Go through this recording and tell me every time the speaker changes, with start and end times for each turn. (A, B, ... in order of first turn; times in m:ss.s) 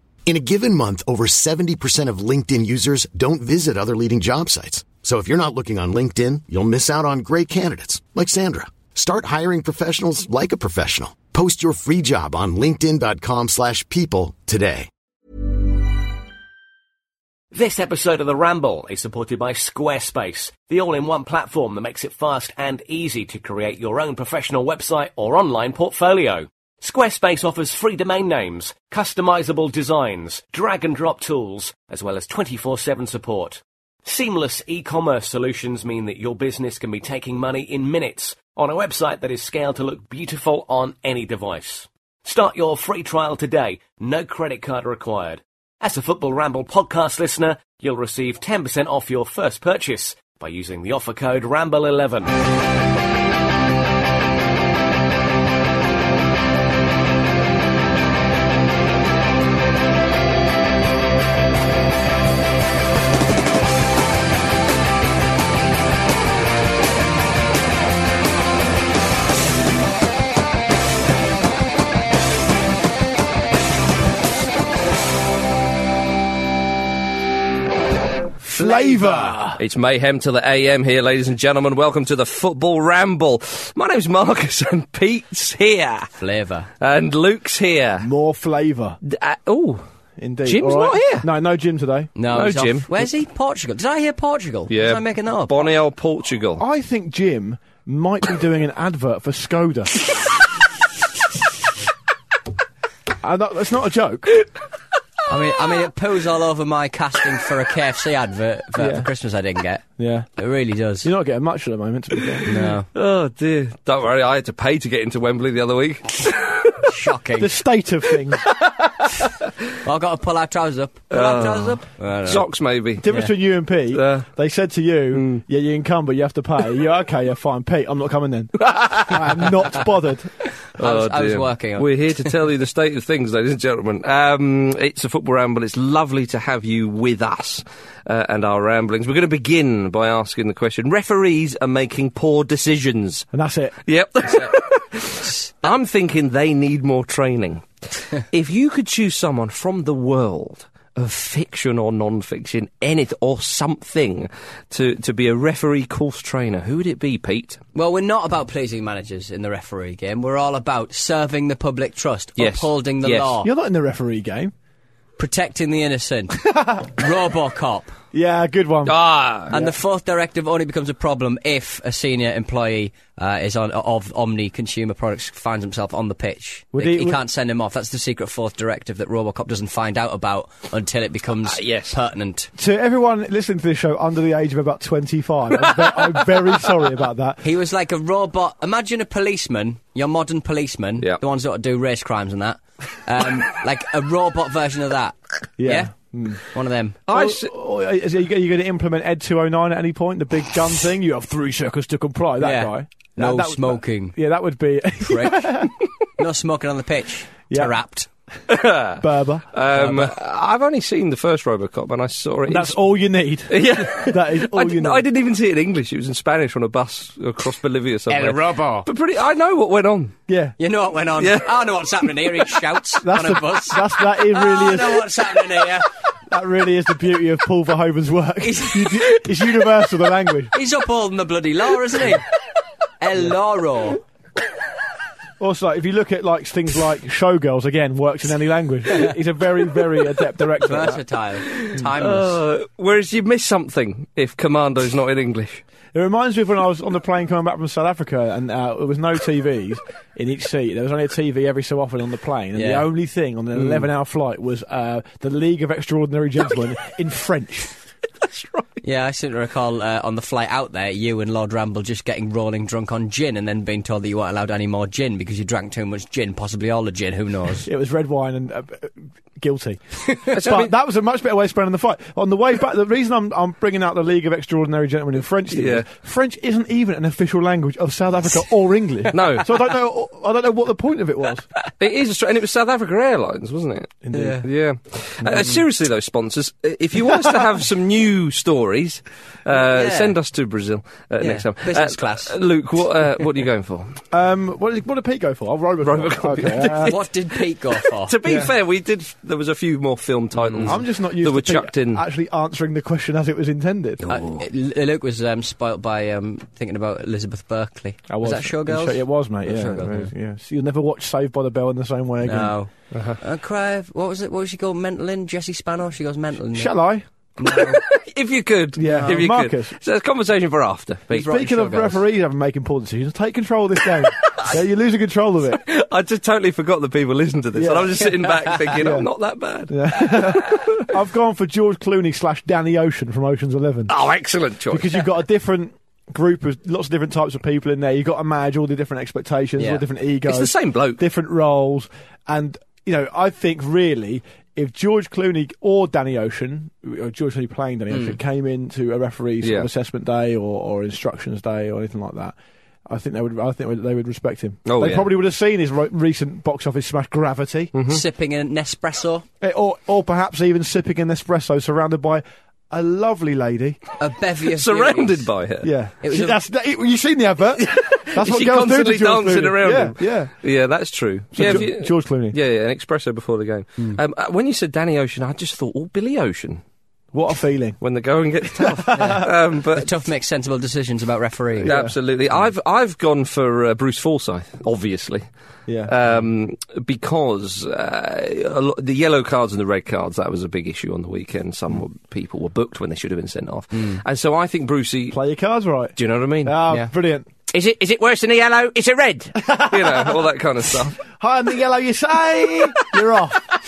0:00.3-0:14.9 A
0:17.5-0:52.3 B
1:18.4-1:19.6 C
1:18.6-1:19.4 D
1:19.6-1:26.1 E
1:26.2-1:26.7 D
1:26.8-1:28.1 E
1:28.0-1:29.0 C
1:29.0-1:29.8 E
1:30.2-1:32.1 C
1:30.4-1:31.3 E
1:32.2-1:35.7 D
1:32.3-1:33.1 E
1:34.7-1:36.6 E
1:36.6-1:40.0 C
1:43.2-1:44.3 C
1:45.3-1:49.8 D
1:48.8-1:49.1 C
1:50.0-1:50.3 C
1:50.4-1:51.1 D
1:51.0-1:52.6 C
1:52.4-1:56.8 E
1:52.5-1:52.9 D
1:56.8-1:57.6 D
1:57.4-1:58.5 C
1:59.8-2:02.5 D
2:01.1-2:03.1 E
2:03.0-2:10.3 C
2:03.9-2:04.3 E
2:05.1-2:05.4 E
2:08.7-2:09.3 E
2:10.7-2:23.3 E
2:10.8-2:11.9 D
2:23.3-2:23.8 C
2:23.9-2:37.6 E
2:37.8-2:43.5 D
2:42.4-2:43.4 E
2:43.4-2:44.5 C
2:45.2-2:48.0 D
2:46.5-2:46.8 C
2:48.1-2:49.0 C
2:48.9-2:49.5 E
2:49.5-2:49.8 C
2:49.5-3:02.5 D
2:56.7-2:57.2 C
3:01.5-3:02.0 E
3:02.6-3:07.4 C
3:07.4-3:15.9 D
3:15.6-3:16.4 C
3:16.4-3:17.0 D
3:17.1-3:17.5 E
3:17.1-3:25.7 C
3:22.4-3:24.2 D
3:25.0-3:28.1 D
3:28.5-3:32.8 E
3:29.0-3:29.5 C
3:29.8-3:30.1 D
3:32.5-3:35.0 C
3:33.5-3:40.2 E
3:38.1-3:38.9 D
3:40.3-3:40.6 C
3:40.6-3:45.9 D
3:41.2-3:42.6 E
3:43.0-3:45.1 C
3:46.3-3:50.5 C
3:48.4-3:49.3 D
3:50.5-3:52.3 D
3:53.0-3:54.0 D
3:55.4-4:01.0 C
4:00.6-4:02.4 D
4:01.5-4:05.6 E
4:05.9-4:17.7 C
4:12.6-4:12.9 D
4:13.6-4:13.9 E
4:18.2-4:18.7 E
4:18.8-4:27.7 D
4:27.6-4:41.5 C
4:30.3-4:30.7 E
4:35.5-4:35.9 E
4:39.1-4:39.6 E
4:41.8-4:54.0 E
4:44.0-4:44.4 C
4:44.1-4:44.4 D
4:45.2-4:45.5 C
4:49.5-4:50.2 D
4:51.2-4:52.3 D
4:54.1-4:57.0 C
4:55.8-4:57.1 E
4:56.8-4:58.2 D
4:58.0-5:02.0 E
4:58.2-4:58.5 C
5:00.4-5:00.8 D
5:00.6-5:04.2 C
5:04.1-5:04.4 E
5:04.1-5:10.1 D
5:08.1-5:12.6 C
5:12.2-5:16.8 D
5:12.9-5:13.2 E
5:16.5-5:17.1 C
5:17.4-5:17.8 D
5:17.5-5:21.3 E
5:18.8-5:19.8 C
5:18.8-5:19.2 D
5:21.1-5:22.0 D
5:21.2-5:25.6 C
5:25.6-5:30.9 E
5:27.6-5:28.1 C
5:28.7-5:29.1 C
5:29.7-5:34.0 C
5:33.9-5:35.1 E
5:34.7-5:52.4 C
5:39.6-5:39.8 D
5:40.3-5:41.0 E
5:47.9-5:48.2 D
5:49.4-5:49.7 E
5:52.9-5:57.7 C
5:54.7-5:55.1 E
5:57.7-5:58.0 E
5:57.9-5:59.2 D
5:59.4-6:03.8 C
6:04.0-6:05.3 D
6:04.5-6:05.7 E
6:05.6-6:10.3 C
6:06.0-6:06.4 D
6:07.6-6:16.6 E
6:11.3-6:12.4 C
6:17.1-6:17.8 C
6:17.8-6:19.9 E
6:18.6-6:19.2 C
6:19.0-6:21.8 D
6:21.6-6:25.2 E
6:21.7-6:22.0 C
6:25.7-6:25.9 C
6:25.8-6:35.2 E
6:35.1-6:37.3 C
6:36.0-6:36.7 E
6:37.5-6:41.0 E
6:39.4-6:40.3 C
6:41.0-6:43.6 C